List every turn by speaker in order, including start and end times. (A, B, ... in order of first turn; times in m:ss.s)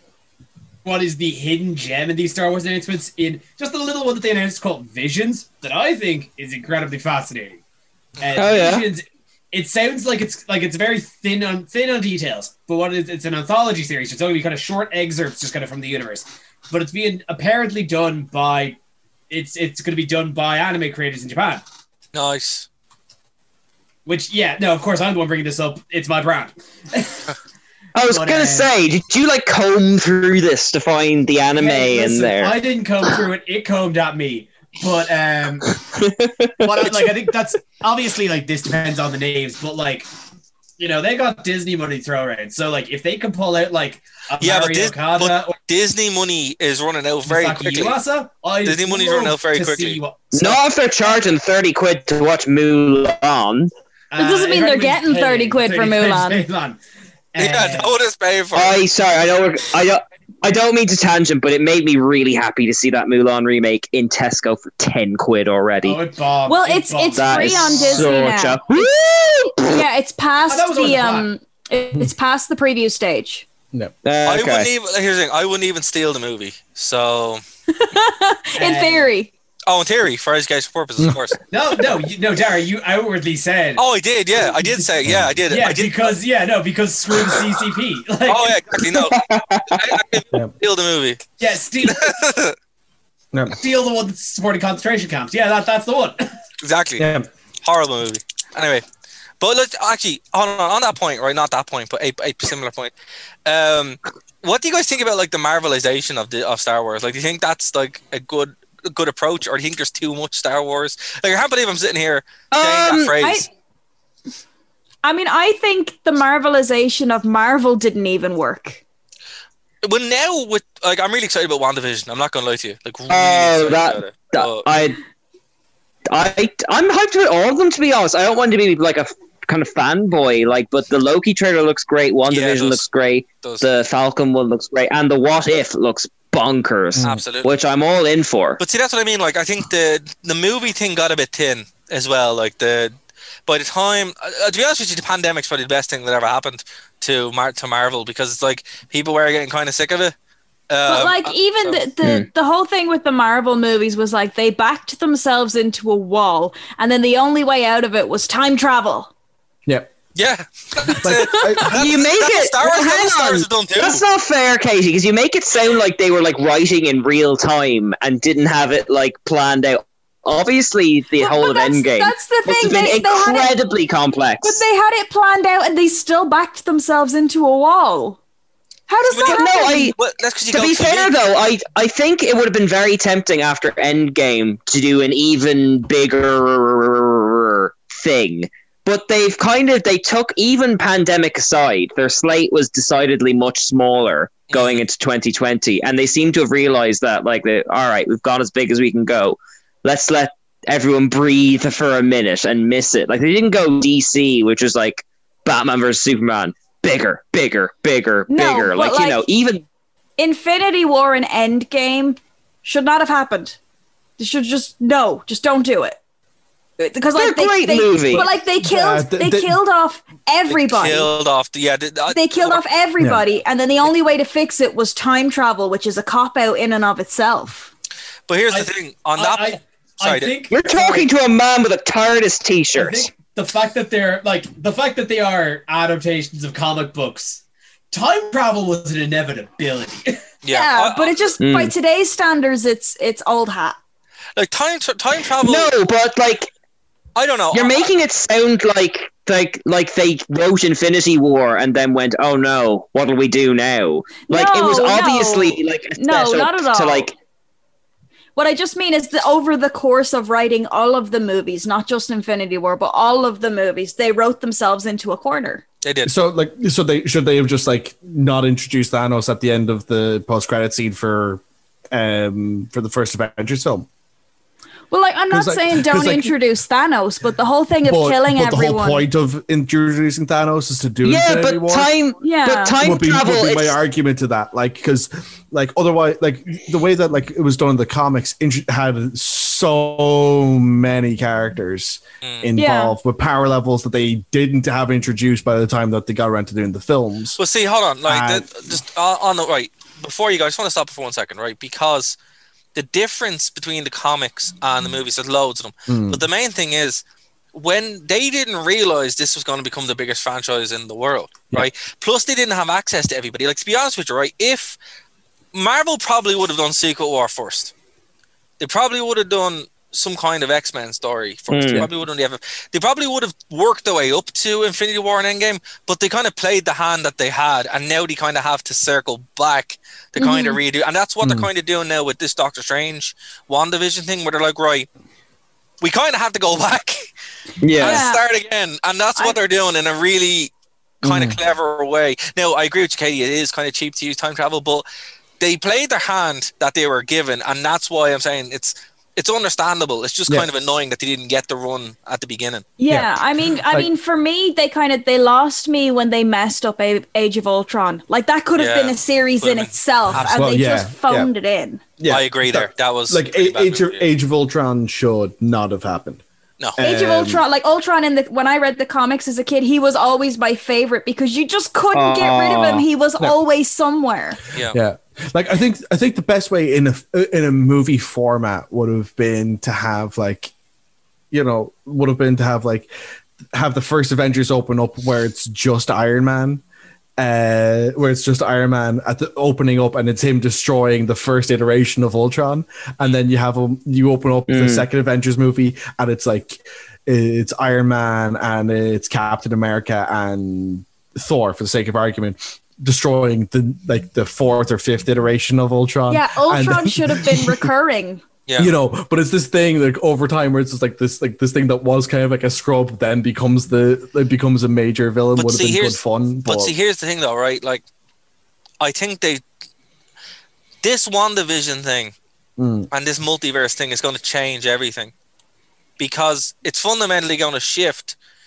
0:00.8-0:07.6 A
0:08.2-0:18.8 A
0:08.4-0:08.9 B
0:19.3-0:21.6 A
0:22.1-0:22.7 C
0:24.0-0:27.2 A
0:27.9-0:32.6 B
0:28.0-0:28.7 A
0:31.6-0:35.7 A
0:35.8-0:36.9 B
0:36.6-0:40.1 A
0:40.8-0:45.6 A
0:44.4-0:48.0 C
0:47.2-0:50.6 A
0:48.6-0:50.0 C
0:50.3-0:53.7 B
0:54.1-0:56.8 A
0:54.2-0:56.4 D
0:57.3-0:57.9 A
0:57.4-0:58.8 C
0:58.5-1:06.0 B
1:05.8-1:08.2 A
1:06.5-1:08.8 D
1:07.1-1:09.8 B
1:09.6-1:13.4 D
1:10.5-1:11.3 A
1:14.0-1:14.7 B
1:14.2-1:17.4 C
1:17.7-1:19.3 D
1:18.6-1:19.1 A
1:19.7-1:21.4 C
1:21.0-1:21.3 E
1:21.5-1:23.8 A
1:23.8-1:26.1 C
1:24.6-1:24.9 A
1:25.0-1:25.4 E
1:25.5-1:28.5 A
1:28.3-1:31.2 C
1:28.8-1:29.8 B
1:31.4-1:32.0 A
1:31.8-1:32.5 C
1:33.6-1:36.2 A
1:36.6-1:37.1 C
1:37.0-1:37.3 E
1:37.6-1:38.8 C
1:39.4-1:42.9 C
1:43.4-1:53.5 C
1:52.5-1:53.1 B
1:53.2-1:53.5 D
1:55.0-1:58.8 D
1:59.8-2:04.6 C
2:03.1-2:05.0 B
2:06.1-2:18.6 B
2:12.3-2:12.8 C
2:16.9-2:17.2 E
2:17.0-2:17.5 C
2:18.6-2:22.9 C
2:23.5-2:30.1 C
2:30.7-2:31.8 C
2:30.9-2:39.1 D
2:39.6-2:39.9 E
2:40.2-2:44.0 C
2:40.9-2:41.8 E
2:41.7-2:54.6 B
2:51.2-2:53.5 D
2:54.4-2:58.2 D
2:58.9-2:59.9 D
2:59.1-3:01.1 C
2:59.2-2:59.9 B
3:00.5-3:29.6 B
3:14.5-3:14.8 C
3:28.3-3:29.2 D
3:30.2-3:33.6 D
3:34.2-3:36.0 D
3:36.8-3:41.1 D
3:37.1-3:38.2 B
3:38.1-3:39.6 E
3:40.5-3:42.6 C
3:42.1-3:47.7 D
3:48.3-3:50.4 C
3:48.5-3:51.0 A
3:50.5-3:53.1 B
3:52.7-4:00.2 A
4:00.4-4:01.3 C
4:00.5-4:03.8 D
4:01.4-4:01.7 B
4:04.4-4:05.7 C
4:05.4-4:06.5 B
4:07.2-4:07.9 C
4:07.5-4:17.2 B
4:14.3-4:17.1 D
4:18.4-4:25.6 D
4:25.8-4:26.1 C
4:26.0-4:33.9 E
4:34.9-4:39.0 D
4:35.3-4:36.3 E
4:37.8-4:41.9 E
4:41.0-4:43.8 B
4:42.2-4:42.8 D
4:42.8-4:57.4 E
4:52.2-4:52.5 C
4:52.6-4:53.0 D
4:57.4-5:02.2 C
4:58.0-4:58.5 E
5:02.7-5:07.0 C
5:05.9-5:06.2 E
5:07.5-5:14.8 C
5:15.5-5:17.7 C
5:18.6-5:34.9 C
5:21.5-5:21.9 B
5:30.2-5:30.6 D
5:31.2-5:31.5 E
5:35.8-5:37.0 C
5:37.6-5:38.0 B
5:37.8-5:40.5 C
5:37.8-5:38.2 D
5:41.0-5:41.4 E
5:41.0-5:44.8 C
5:45.4-5:52.6 C
5:52.8-6:01.8 D
5:52.9-5:53.9 E
5:58.6-6:00.4 C
6:00.1-6:01.3 E
6:02.0-6:06.2 E
6:02.1-6:04.1 C
6:06.8-6:07.4 E
6:06.8-6:14.4 D
6:11.9-6:12.8 B
6:14.7-6:20.5 E
6:21.3-6:22.9 E
6:23.5-6:26.6 E
6:27.2-6:47.6 E
6:34.5-6:34.8 B
6:46.1-6:48.2 D
6:48.5-6:48.7 C
6:48.6-6:56.7 E
6:55.3-6:57.8 C
6:58.8-6:59.4 C
7:00.8-7:02.1 C
7:02.6-7:02.9 E
7:02.9-7:05.1 C
7:06.0-7:08.2 C